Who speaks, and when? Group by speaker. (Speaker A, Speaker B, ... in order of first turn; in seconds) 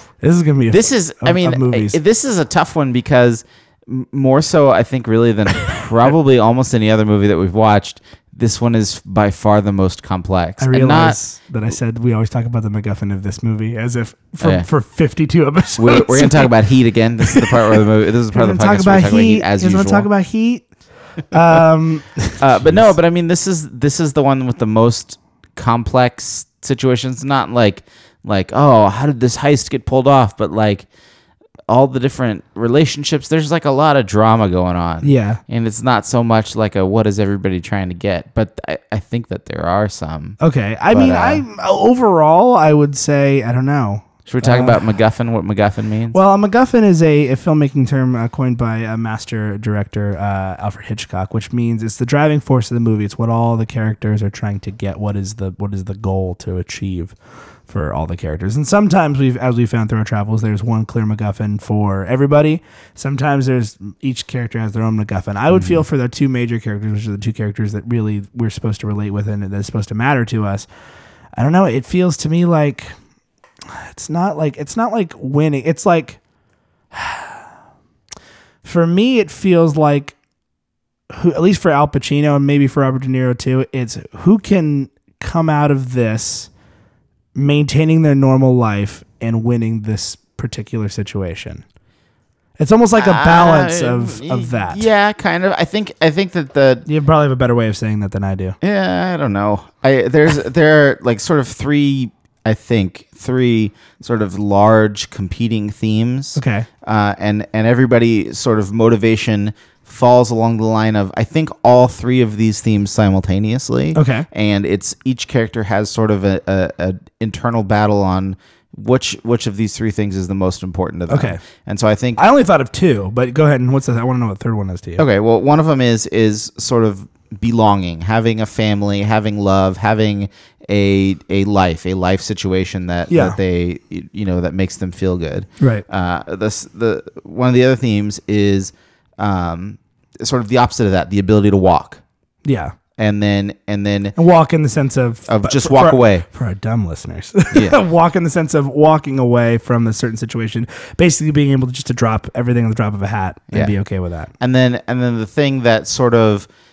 Speaker A: 0.2-2.0, 10.6-16.5, 17.2-17.5, 18.3-22.9, 35.0-35.4, 40.4-44.8, 46.1-57.1, 57.7-70.7, 71.3-72.9, 73.7-76.2, 76.9-77.4, 78.6-80.1, 81.1-86.5, 87.3-91.6, 92.6-94.8, 96.8-98.6, 106.3-106.7, 113.9-114.3, 121.1-121.4, 122.2-125.0, 133.1-133.4, 135.6-135.8, 142.4-142.7, 144.2-154.3
Speaker B: 0.7-11.2, 14.4-14.7, 15.8-20.1, 22.4-30.9, 31.7-40.4, 40.9-41.4, 44.3-46.2, 65.5-65.8, 93.0-96.8, 98.6-122.2, 125.0-142.0, 143.0-144.1, 145.3-146.2, 147.5-147.8, 153.5-153.8, 154.4-156.5